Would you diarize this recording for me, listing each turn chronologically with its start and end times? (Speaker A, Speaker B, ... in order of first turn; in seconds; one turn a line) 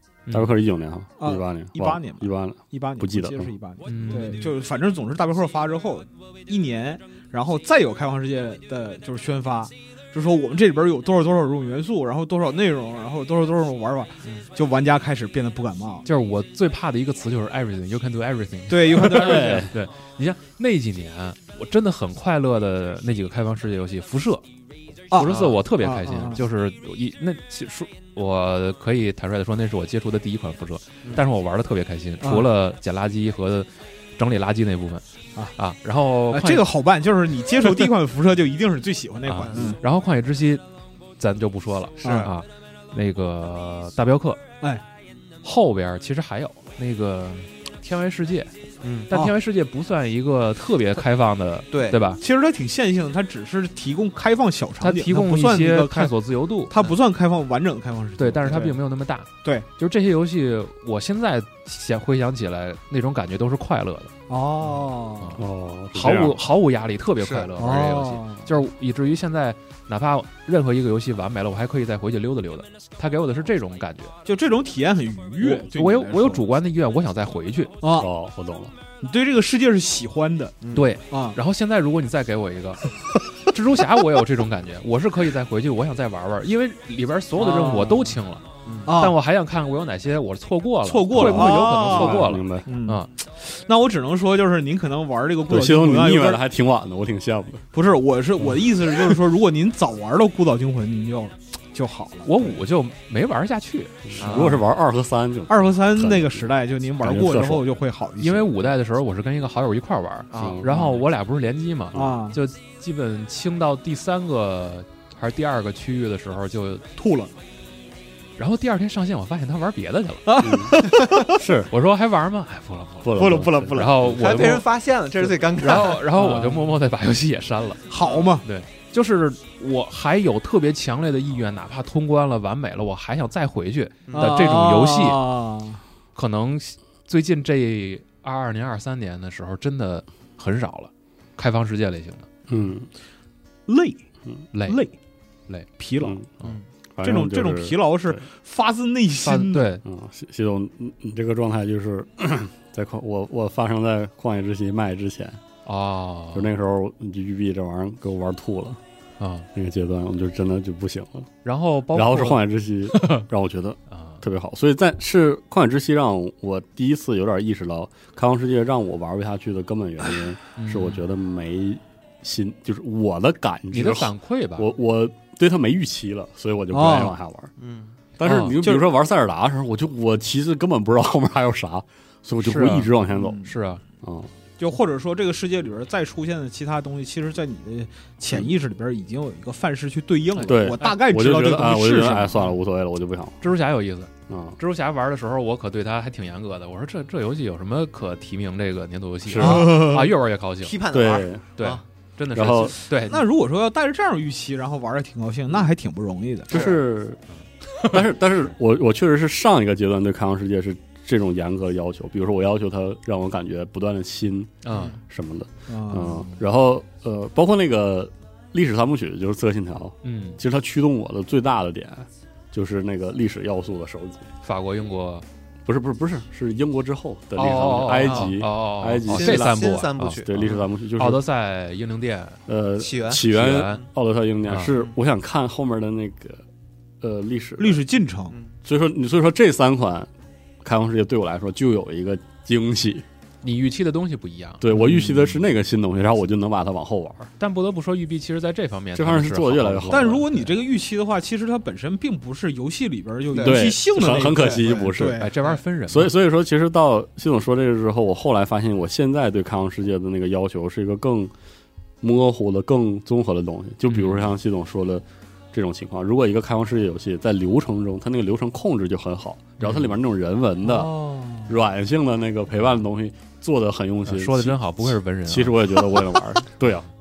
Speaker A: 0.3-0.6
Speaker B: 0.3-3.5
Speaker C: 1.2-16.1
Speaker A: 3.9-4.4
Speaker D: 4.1-4.5
Speaker A: 16.1-24.4
Speaker C: 18.7-19.7
Speaker B: 19.0-19.7
Speaker C: 25.1-26.4
Speaker A: 25.1-35.0
Speaker C: 32.2-32.5
Speaker A: 35.5-36.7
Speaker C: 36.3-39.8
Speaker A: 39.3-40.6
Speaker D: 39.5-39.8
Speaker A: 41.2-44.4
Speaker D: 42.0-42.3
Speaker C: 42.0-42.3
Speaker A: 45.4-48.5
Speaker D: 48.8-49.1
Speaker A: 49.1-52.2
Speaker D: 51.7-52.0
Speaker C: 52.2-56.1
Speaker A: 54.8-56.7
Speaker C: 56.7-58.8
Speaker A: 58.2-64.1
Speaker C: 64.3-65.4
Speaker A: 65.2-74.1
Speaker B: 65.4-66.4
Speaker D: 67.2-67.5
Speaker C: 67.6-68.5
Speaker C: 74.2-76.5
Speaker A: 75.4-77.8
Speaker C: 77.8-78.1
Speaker B: 77.9-78.7
Speaker C: 79.0-80.6
Speaker D: 80.6-80.9
Speaker A: 80.7-82.8
Speaker C: 81.1-81.4
Speaker A: 83.5-93.1
Speaker C: 87.4-88.2
Speaker D: 88.7-88.9
Speaker C: 88.9-89.2
Speaker C: 90.8-96.4
Speaker B: 91.1-92.7
Speaker B: 95.5-97.6
Speaker C: 97.7-102.6
Speaker A: 102.2-104.2
Speaker B: 104.1-107.7
Speaker D: 104.2-104.6
Speaker C: 104.2-104.6
Speaker C: 105.5-108.5
Speaker A: 108.2-116.9
Speaker D: 110.3-110.8
Speaker B: 110.4-110.7
Speaker C: 111.9-112.4
Speaker C: 117.0-117.3
Speaker A: 118.4-120.5
Speaker C: 120.3-121.4
Speaker B: 120.4-121.7
Speaker A: 121.7-124.7
Speaker B: 123.0-124.1
Speaker C: 123.2-123.9
Speaker D: 124.1-126.0
Speaker A: 125.5-127.9
Speaker C: 126.2-126.7
Speaker C: 127.9-128.5
Speaker D: 128.0-128.3
Speaker A: 128.4-135.2
Speaker D: 134.1-134.5
Speaker C: 134.2-135.8
Speaker A: 136.2-142.3
Speaker B: 142.5-142.9
Speaker C: 143.7-144.0
Speaker A: 144.5-144.8
Speaker C: 144.6-144.9
Speaker C: 145.8-146.2
Speaker B: 146.0-146.3
Speaker B: 147.0-148.2
Speaker C: 147.0-149.7
Speaker A: 149.2-149.8
Speaker B: 149.8-155.4
Speaker A: 155.7-156.5
Speaker B: 156.3-158.8
Speaker A: 159.2-159.5
Speaker B: 159.5-161.3
Speaker A: 161.4-163.2
Speaker B: 161.9-177.5
Speaker A: 163.9-164.2
Speaker A: 170.6-171.0
Speaker A: 173.7-174.7
Speaker C: 176.7-177.2
Speaker D: 177.6-178.0
Speaker B: 178.2-183.4
Speaker A: 178.2-178.6
Speaker C: 178.6-178.9
Speaker A: 182.4-183.8
Speaker C: 183.1-183.5
Speaker B: 184.0-184.3
Speaker C: 184.6-192.5
Speaker B: 188.3-188.5
Speaker A: 190.4-191.0
Speaker B: 190.4-193.4
Speaker A: 193.4-200.8
Speaker B: 194.3-194.6
Speaker B: 199.3-199.9
Speaker C: 199.4-200.1
Speaker D: 200.6-201.8
Speaker B: 200.9-201.4
Speaker A: 201.6-203.2
Speaker B: 202.3-202.8
Speaker C: 203.1-206.6
Speaker B: 206.5-207.2
Speaker D: 206.5-206.8
Speaker B: 207.8-224.3
Speaker A: 214.6-215.0
Speaker C: 215.7-216.4
Speaker A: 220.0-220.4
Speaker A: 224.4-225.3
Speaker B: 225.7-229.7
Speaker A: 227.4-230.2
Speaker D: 228.0-228.4
Speaker D: 229.1-230.7
Speaker B: 230.2-231.2
Speaker A: 231.0-232.4
Speaker B: 232.5-236.4
Speaker D: 232.8-233.8
Speaker A: 233.2-233.8
Speaker D: 234.7-235.0
Speaker B: 237.0-237.8
Speaker C: 237.6-238.4
Speaker D: 238.3-238.6
Speaker B: 238.7-240.1
Speaker B: 240.6-243.1
Speaker A: 243.4-244.7
Speaker B: 244.6-247.3
Speaker C: 244.7-245.4
Speaker A: 247.4-250.6
Speaker B: 248.9-250.2
Speaker C: 249.9-255.4
Speaker D: 253.3-254.9
Speaker B: 253.4-255.3
Speaker A: 255.1-256.1
Speaker B: 255.9-261.3
Speaker B: 262.0-276.9
Speaker A: 263.9-264.3
Speaker A: 269.6-269.9
Speaker C: 270.6-271.6
Speaker A: 274.1-275.9